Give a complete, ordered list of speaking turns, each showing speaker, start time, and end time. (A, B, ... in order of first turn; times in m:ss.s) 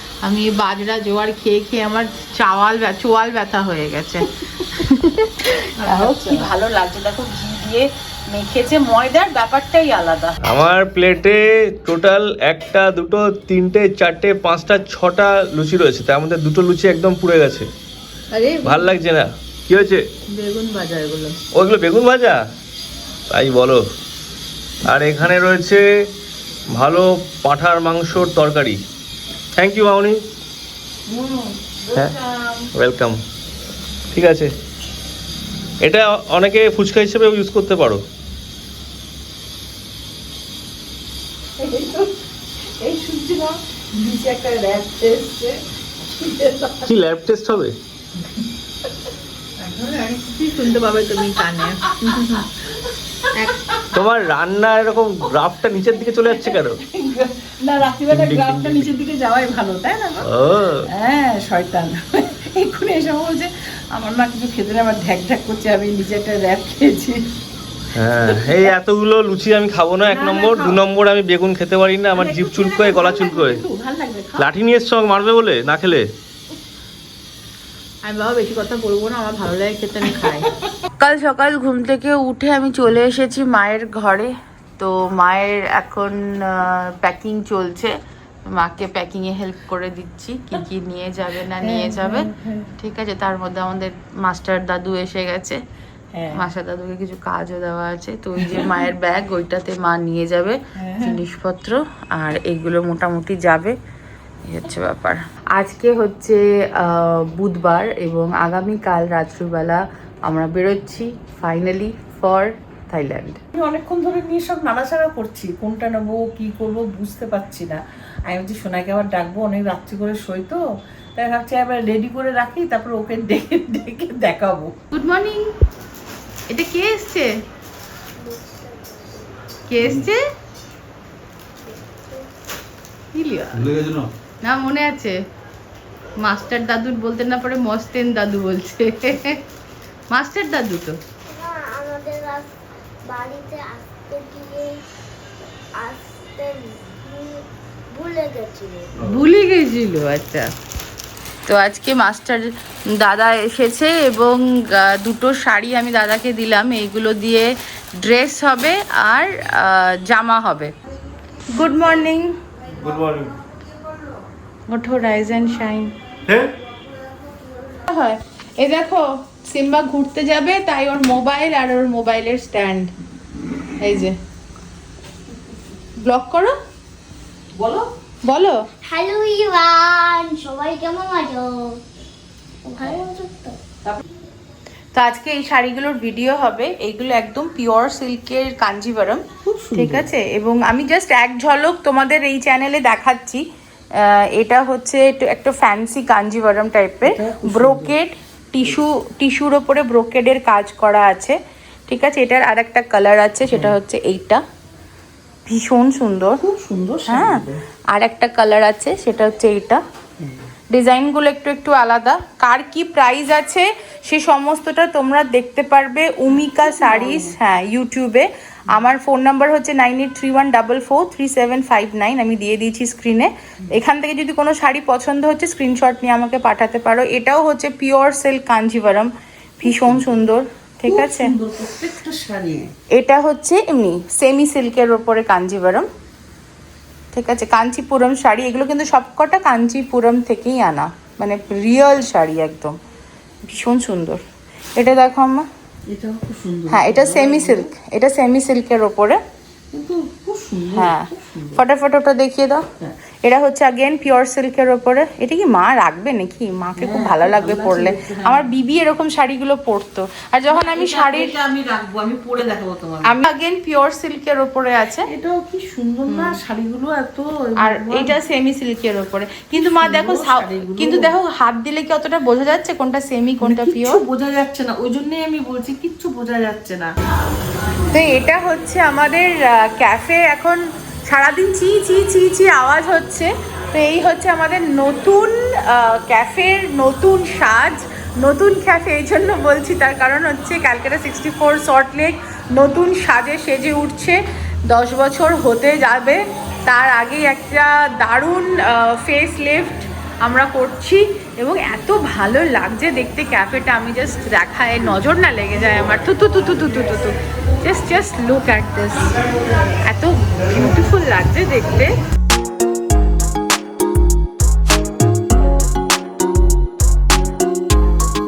0:00.2-0:10.4 A
0:05.8-0:06.5 B
0:10.4-0:17.7 C
0:18.5-0:18.9 A
0:18.6-0:20.0 C
0:20.4-0:21.4 A
0:21.5-0:22.4 C
0:23.3-0:23.9 C
0:24.8-0:26.0 C
0:26.7-0:28.8 C
0:29.6-0:30.2 C
0:31.1-0:32.6 B
0:32.7-0:33.2 C
0:34.1-0:34.5 C
0:35.8-0:38.0 C
0:41.6-0:42.2 B
0:42.8-0:47.0 B
0:46.8-0:47.8 C
0:49.6-0:52.7 B
0:50.5-0:51.9 A
0:53.2-0:53.9 B
0:53.9-0:56.8 C
0:56.3-1:00.3 B
0:58.1-0:58.9 C
1:00.2-1:00.9 C
1:00.8-1:07.2 B
1:07.9-1:13.6 C
1:08.2-1:08.7 B
1:10.1-1:10.8 B
1:12.2-1:14.5 B
1:14.4-1:16.1 C
1:18.0-1:27.9 A
1:20.2-1:20.4 B
1:28.4-1:35.6 A
1:31.6-1:32.7 B
1:36.1-1:36.4 B
1:36.3-1:43.8 A
1:38.4-1:38.8 B
1:40.8-1:41.2 B
1:44.5-1:53.4 A
1:53.5-2:00.6 B
2:01.2-2:04.7 B
2:04.9-2:05.5 A
2:06.5-2:07.4 A
2:08.2-2:09.3 D
2:09.7-2:10.2 A
2:11.6-2:12.3 D
2:13.1-2:13.8 A
2:13.7-2:14.1 C
2:14.4-2:15.2 A
2:16.2-2:19.4 A
2:20.1-2:21.0 A
2:21.3-2:22.5 D
2:23.1-2:24.8 D
2:25.8-2:28.9 D
2:29.0-2:30.5 A
2:31.5-2:40.7 A
2:41.5-2:42.4 A
2:42.7-2:43.3 C
2:44.7-2:45.9 A
2:46.3-2:46.5 C
2:47.8-2:52.9 A
2:53.8-2:54.2 A
2:56.0-2:56.5 A
2:57.5-2:57.9 B
2:58.2-2:58.6 A
2:58.8-3:01.8 D
3:02.6-3:03.6 D
3:04.9-3:13.4 A
3:09.4-3:10.1 B
3:14.0-3:21.4 A
3:17.0-3:18.0 B
3:21.9-3:24.4 A
3:23.5-3:23.8 B
3:25.5-3:26.4 A
3:26.4-3:27.6 B
3:27.1-3:29.8 A
3:30.7-3:51.3 A
3:36.6-3:37.4 B
3:49.6-3:50.1 B
3:50.8-3:52.7 B
3:52.9-3:55.9 A
3:57.1-4:02.8 A
4:03.4-4:04.2 A
4:04.8-4:05.5 A
4:05.9-4:07.7 B
4:06.7-4:09.2 A
4:09.7-4:11.6 B
4:10.7-4:12.7 A
4:13.2-4:21.4 A
4:16.8-4:18.5 B
4:20.5-4:23.2 B
4:23.0-4:25.1 A
4:25.0-4:28.1 B
4:26.1-4:26.4 A
4:27.6-4:34.0 A
4:29.5-4:31.1 B
4:33.4-4:36.9 B
4:37.9-5:09.2 A
5:09.8-5:11.9 A